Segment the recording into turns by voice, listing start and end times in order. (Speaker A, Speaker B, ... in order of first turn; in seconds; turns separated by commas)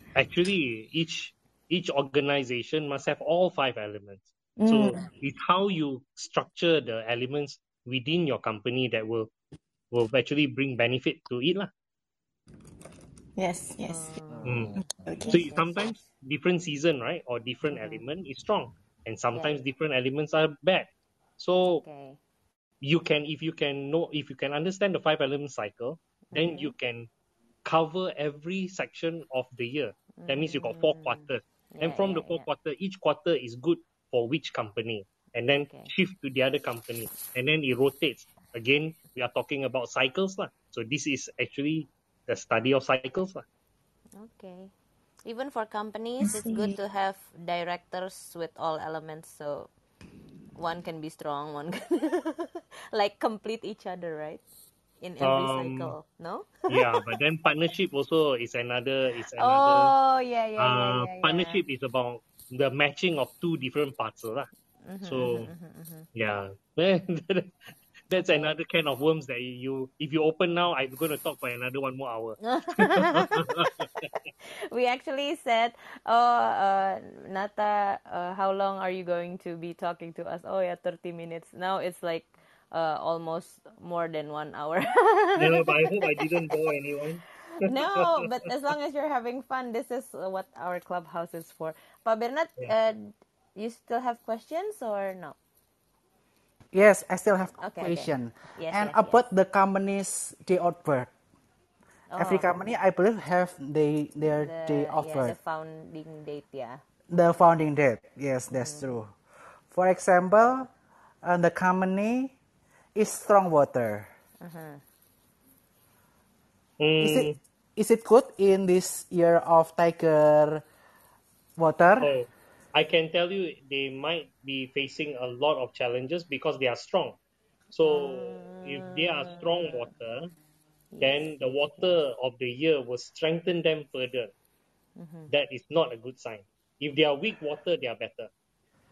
Speaker A: 0.1-9.3, Speaker B: 4.6-5.0, Speaker A: 9.9-11.7, Speaker B: 13.4-14.2, Speaker C: 13.9-16.0, Speaker A: 14.4-14.8, Speaker B: 15.1-15.5, Speaker A: 15.3-21.8, Speaker C: 17.7-18.0, Speaker C: 19.3-19.6, Speaker C: 21.7-22.2, Speaker A: 22.8-27.1, Speaker C: 26.3-26.7, Speaker A: 27.6-43.5, Speaker C: 30.2-32.5, Speaker C: 35.6-35.9, Speaker C: 44.2-44.7, Speaker C: 45.3-49.7, Speaker B: 46.3-46.8, Speaker C: 50.6-54.4, Speaker C: 55.0-57.0, Speaker A: 55.2-55.9, Speaker A: 56.7-59.9, Speaker C: 59.4-61.6, Speaker A: 60.6-64.5, Speaker C: 64.8-66.1, Speaker A: 65.0-65.5, Speaker A: 66.1-67.5, Speaker A: 68.1-73.7, Speaker C: 68.1-68.6, Speaker C: 72.5-73.7, Speaker C: 74.7-85.7, Speaker A: 85.4-88.0, Speaker C: 87.6-95.4, Speaker D: 96.7-101.1, Speaker C: 97.6-99.2, Speaker C: 102.1-102.5, Speaker D: 102.2-105.4, Speaker C: 104.3-106.8, Speaker D: 107.1-109.1, Speaker C: 108.5-108.9, Speaker D: 109.7-110.7, Speaker D: 111.2-112.3, Speaker D: 113.0-114.1, Speaker C: 114.4-114.8, Speaker A: 116.8-117.4, Speaker D: 117.0-120.6, Speaker D: 121.6-122.1, Speaker A: 122.0-127.2, Speaker A: 127.7-130.3, Speaker C: 127.8-129.9, Speaker C: 130.9-132.0, Speaker A: 131.0-134.3, Speaker C: 135.0-135.3, Speaker A: 135.3-138.3